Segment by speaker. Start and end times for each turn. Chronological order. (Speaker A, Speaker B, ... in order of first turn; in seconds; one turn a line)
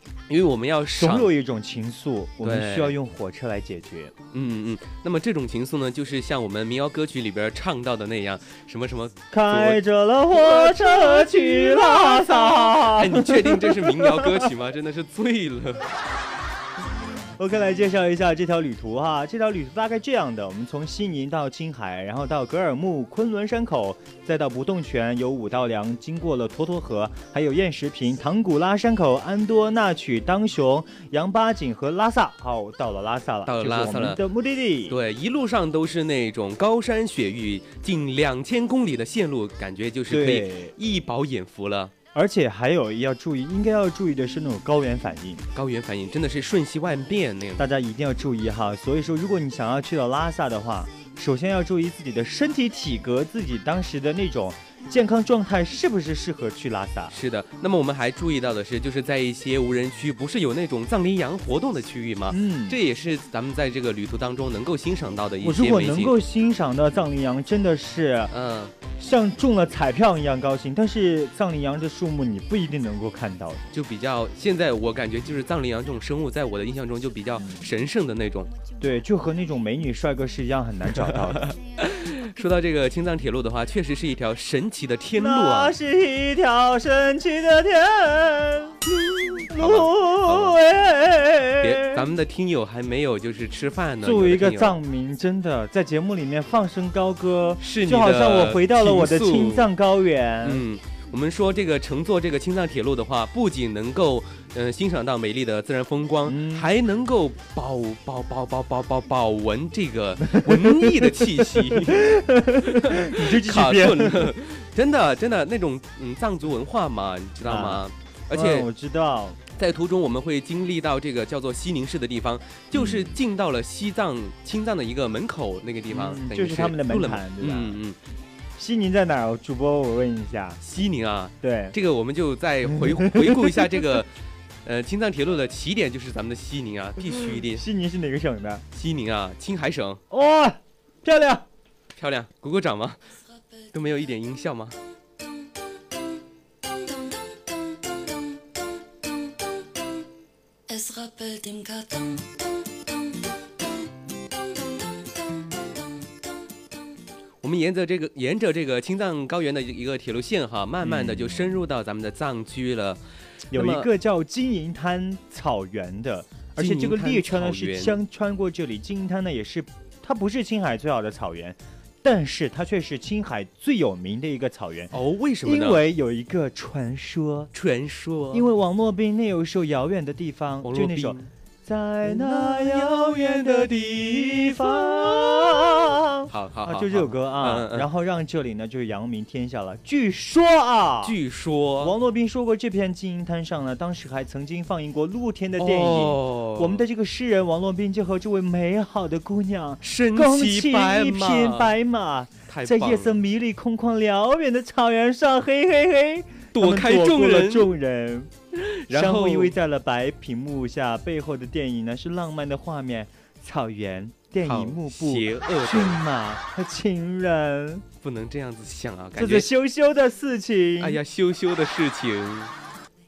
Speaker A: 0.3-1.3
Speaker B: 1.0-4.1
Speaker A: 2.4-3.0
Speaker A: 4.3-9.8
Speaker B: 9.3-14.5
Speaker A: 10.3-15.8
Speaker B: 17.4-35.0
Speaker A: 33.5-34.2
Speaker A: 34.9-41.9
Speaker B: 40.1-40.7
Speaker B: 42.1-45.4
Speaker A: 45.5-47.7
Speaker B: 47.6-57.1
Speaker A: 57.1-66.2
Speaker B: 62.3-62.8
Speaker B: 65.4-68.3
Speaker A: 68.3-68.7
Speaker B: 69.0-73.7
Speaker A: 73.7-78.5
Speaker B: 78.8-81.5
Speaker A: 80.9-85.8
Speaker B: 85.2-88.8
Speaker A: 88.9-90.6
Speaker B: 89.5-92.0
Speaker A: 91.6-94.8
Speaker B: 94.0-100.6
Speaker A: 97.6-99.7
Speaker A: 100.4-118.7
Speaker B: 106.2-106.7
Speaker B: 110.3-114.3
Speaker B: 117.4-119.4
Speaker A: 119.5-128.0
Speaker B: 122.7-123.2
Speaker B: 125.9-127.8
Speaker B: 128.6-130.6
Speaker A: 130.6-134.1
Speaker B: 131.4-131.7
Speaker B: 132.7-133.8
Speaker A: 134.7-137.7
Speaker B: 137.3-138.6
Speaker A: 138.7-140.0
Speaker B: 140.1-141.5
Speaker A: 142.0-143.0
Speaker A: 143.7-144.8
Speaker C: 146.8-148.5
Speaker C: 150.7-153.2
Speaker C: 154.4-156.1
Speaker A: 157.4-163.0
Speaker B: 160.8-161.5
Speaker A: 163.5-163.9
Speaker B: 163.5-177.5
Speaker A: 166.6-168.0
Speaker A: 174.9-175.8
Speaker A: 177.5-178.5
Speaker B: 178.3-191.2
Speaker A: 180.6-181.3
Speaker A: 182.1-187.9
Speaker A: 191.0-191.9
Speaker B: 191.8-208.3
Speaker A: 195.6-196.8
Speaker A: 199.8-201.7
Speaker A: 202.5-203.2
Speaker A: 206.5-207.7
Speaker A: 208.5-209.6
Speaker B: 208.9-217.9
Speaker A: 214.4-216.0
Speaker A: 218.0-219.5
Speaker B: 219.2-221.0
Speaker A: 220.8-222.5